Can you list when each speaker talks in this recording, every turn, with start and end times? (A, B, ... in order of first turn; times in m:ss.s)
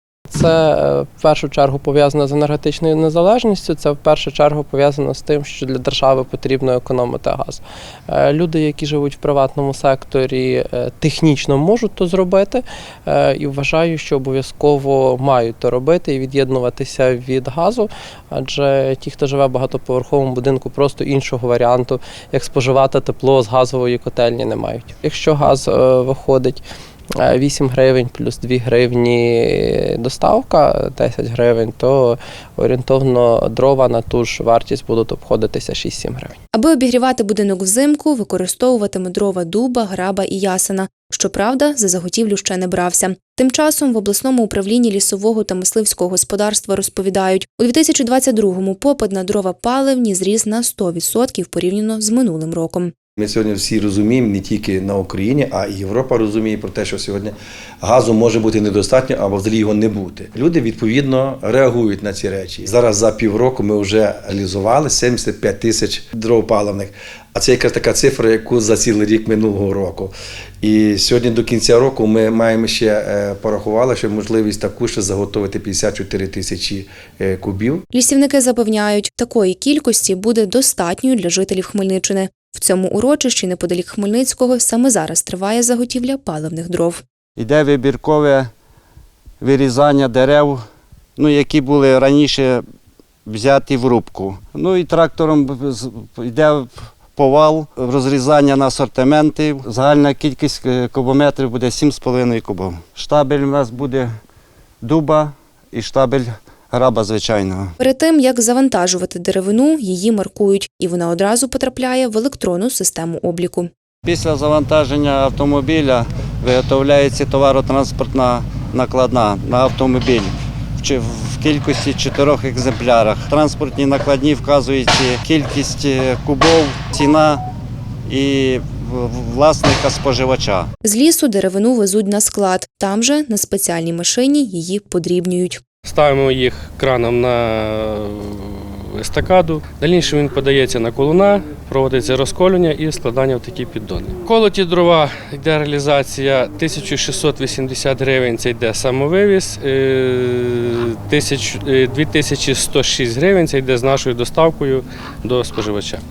0:00.3-0:26.6 A
0:27.2-0:36.3 A
0:36.5-0:52.9 B
0:53.2-1:17.8 C
1:17.9-1:27.0 B
1:27.4-1:28.5 D
1:29.4-1:30.6 D
1:31.2-1:32.6 D
1:33.3-1:44.1 D
1:44.8-1:47.7 D
1:47.8-1:53.7 B
1:54.0-2:07.4 D
2:08.1-2:10.7 D
2:10.8-2:15.6 B
2:15.8-2:36.0 E